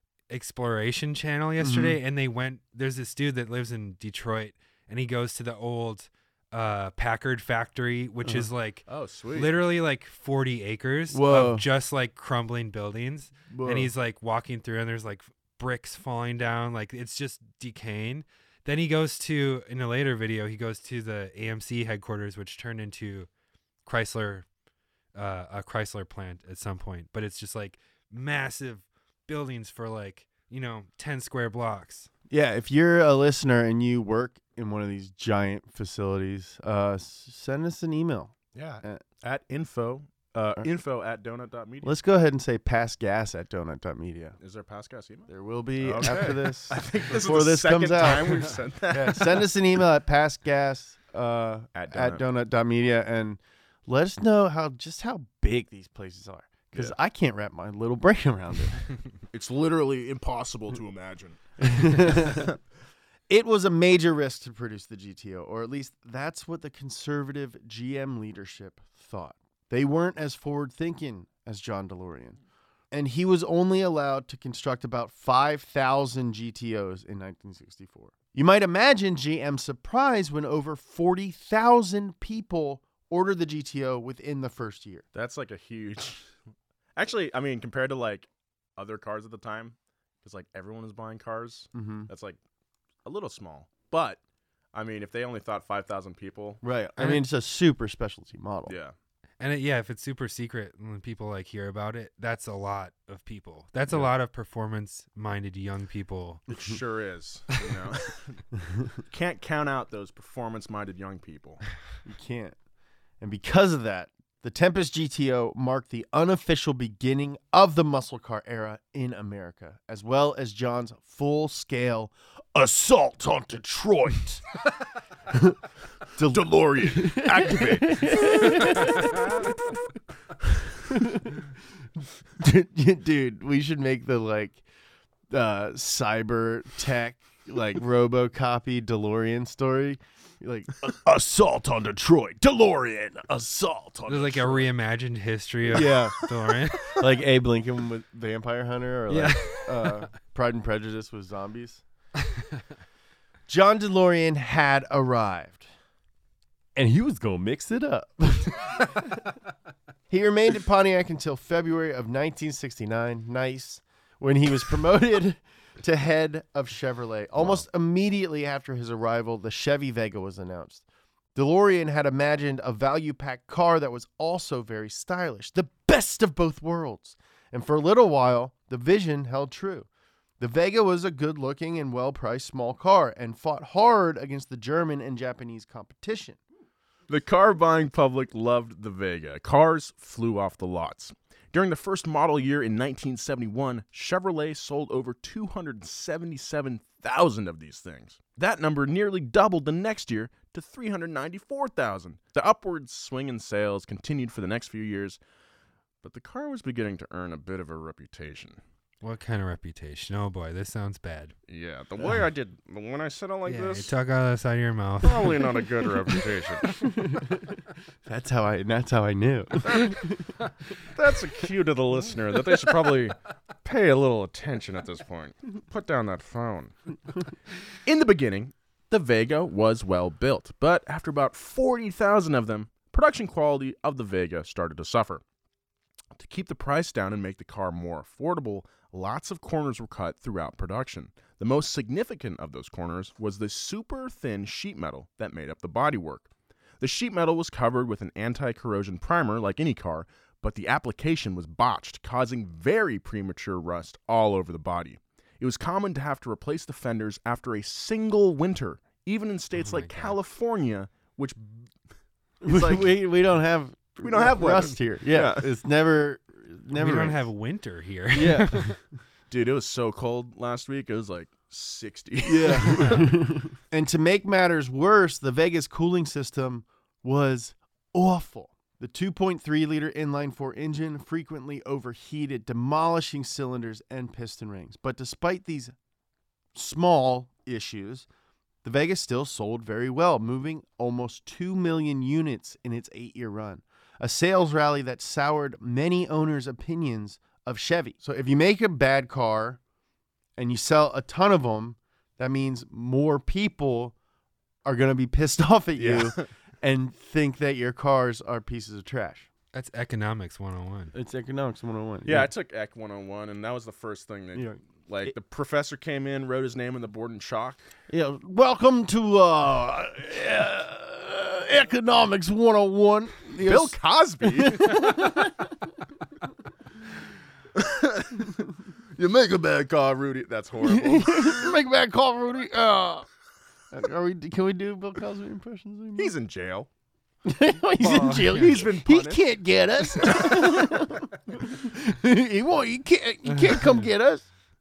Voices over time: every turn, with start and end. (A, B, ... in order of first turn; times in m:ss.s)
0:00.3-0:23.3 A
0:01.6-0:02.0 B
0:08.9-0:09.6 C
0:11.1-0:11.6 B
0:13.5-0:13.9 B
0:23.8-0:24.4 A
0:25.1-0:32.1 A
0:32.3-0:39.0 B
0:38.5-0:41.9 C
0:41.8-0:44.4 B
0:44.4-0:49.5 C
0:45.3-0:58.8 B
0:51.7-0:52.2 C
0:59.3-1:02.5 C
1:01.6-1:02.5 B
1:03.3-1:12.4 B
1:12.9-1:25.0 B
1:25.1-1:26.3 C
1:27.0-1:32.4 C
1:31.7-1:32.1 B
1:33.0-1:34.2 C
1:34.7-1:36.6 C
1:36.6-1:38.8 B
1:37.0-1:37.2 A
1:38.7-1:38.9 C
1:39.4-1:46.5 A
1:46.5-1:48.4 C
1:49.0-1:51.6 C
1:52.0-1:52.6 B
1:53.2-2:04.4 B
2:05.3-2:05.6 B
2:06.2-2:09.5 B
2:06.2-2:08.8 C
2:10.8-2:11.5 B
2:12.4-2:14.6 B
2:15.3-2:24.6 B
2:24.1-2:27.0 A
2:25.7-2:26.2 B
2:25.7-2:26.0 C
2:26.9-2:31.8 B
2:29.1-2:30.0 A
2:33.5-2:35.7 B
2:36.7-2:39.0 B
2:40.1-2:50.8 B
2:51.3-2:59.9 B
3:00.4-3:06.4 B
3:07.1-3:25.2 C
3:26.0-3:28.6 C
3:29.0-3:31.3 A
3:31.5-3:33.9 C
3:33.4-3:36.1 A
3:35.0-3:36.7 C
3:36.8-3:40.4 B
3:39.6-3:40.0 C
3:40.9-3:46.7 C
3:47.8-3:55.2 C
3:56.1-4:06.3 C
4:06.8-4:21.7 C
4:19.6-4:20.2 A
4:22.4-4:27.3 B
4:22.4-4:22.9 C
4:24.0-4:25.5 C
4:26.7-4:28.8 A
4:28.1-4:28.8 B
4:29.3-4:33.1 C
4:32.2-4:45.7 B
4:46.5-4:48.1 B
4:48.6-4:59.6 B
5:00.4-5:03.9 B
5:04.6-5:09.3 B
5:05.8-5:06.2 C
5:09.5-5:10.9 A
5:10.9-5:12.3 B
5:12.0-5:17.6 C
5:14.3-5:15.1 B
5:17.9-5:25.7 B
5:23.4-5:24.7 C
5:27.5-5:31.5 C
5:30.6-5:33.1 B
5:33.7-5:36.1 B
5:36.0-5:36.7 C
5:37.2-5:44.3 B
5:37.8-5:38.6 A
5:38.1-5:39.2 C
5:39.8-5:40.7 C
5:43.3-5:43.8 A